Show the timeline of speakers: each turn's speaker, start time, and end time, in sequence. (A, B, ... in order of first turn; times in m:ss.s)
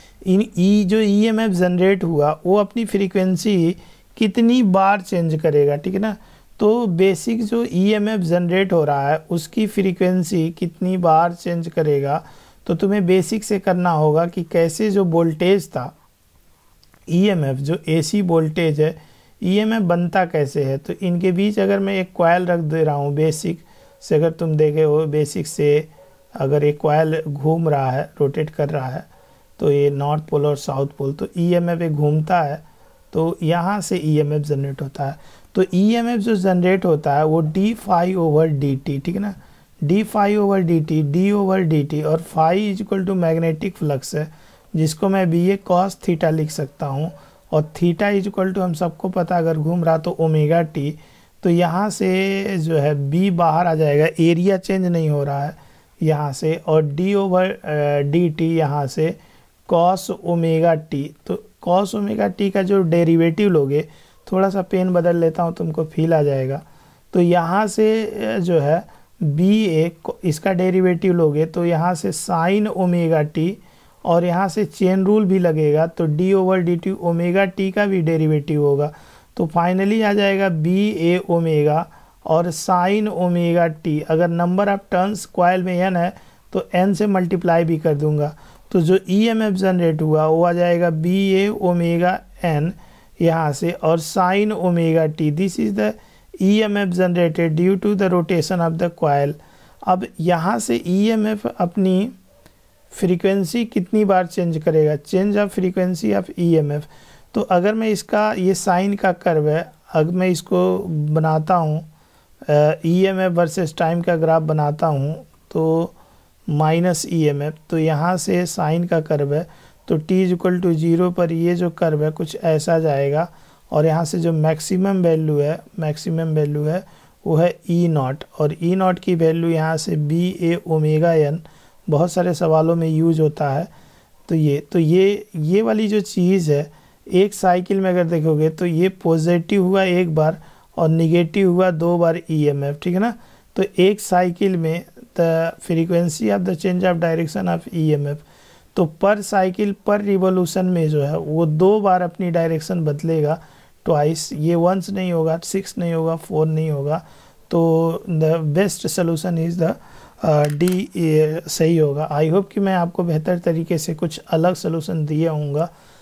0:00.2-0:16.0 A
0:17.1-0:29.1 A
0:29.6-1:42.2 A
1:42.9-1:51.9 A
1:52.5-1:56.0 A
1:56.5-2:13.7 A
2:14.3-2:28.2 A
2:28.8-2:45.7 A